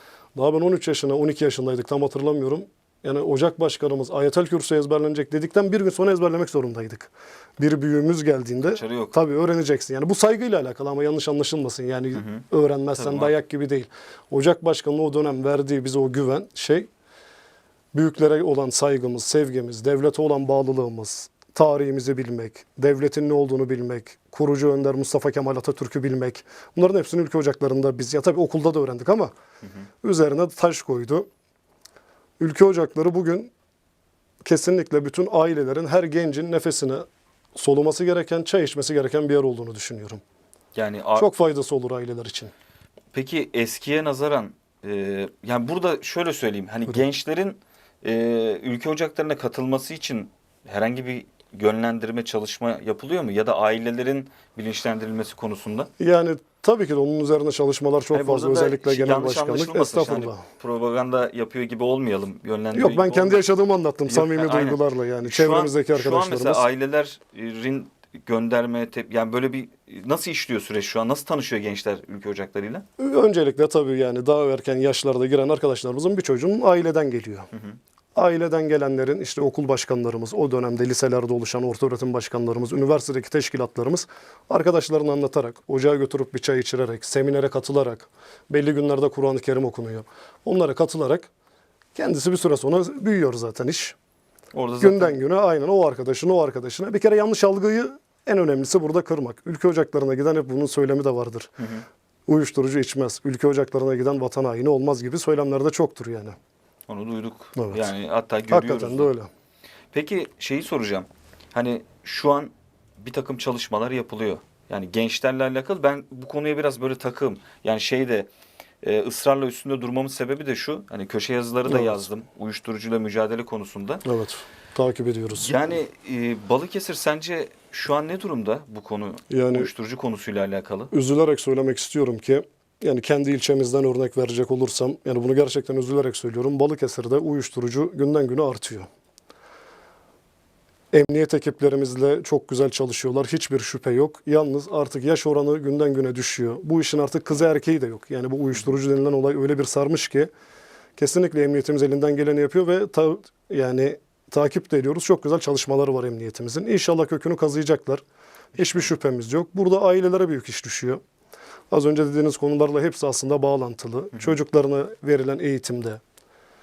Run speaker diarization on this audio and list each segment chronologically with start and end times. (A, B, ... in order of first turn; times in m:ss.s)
0:00.3-0:16.9 A
0:08.6-0:09.1 B
0:12.1-0:13.3 B
0:17.9-0:29.3 A
0:30.0-0:31.3 A
0:32.4-0:33.5 A
0:34.4-0:40.2 A
0:40.7-0:41.3 B
0:41.2-0:42.5 A
0:43.1-0:55.9 B
0:56.0-1:00.4 A
0:58.1-1:03.5 B
1:02.7-1:06.6 A
1:04.1-1:12.8 B
1:13.0-1:17.5 A
1:18.1-1:31.3 A
1:31.9-1:34.0 A
1:34.5-1:35.2 B
1:34.8-1:41.5 A
1:41.6-1:41.8 B
1:42.3-1:46.4 A
1:46.9-1:49.1 B
1:47.6-1:47.9 A
1:48.5-1:49.3 A
1:49.9-1:58.3 B
1:58.8-2:04.0 B
2:01.6-2:02.1 A
2:04.0-2:05.8 A
2:05.3-2:10.9 B
2:09.3-2:09.7 A
2:10.9-2:18.9 A
2:20.9-2:30.3 A
2:31.0-2:38.0 A
2:38.6-2:41.0 A
2:41.7-2:46.0 A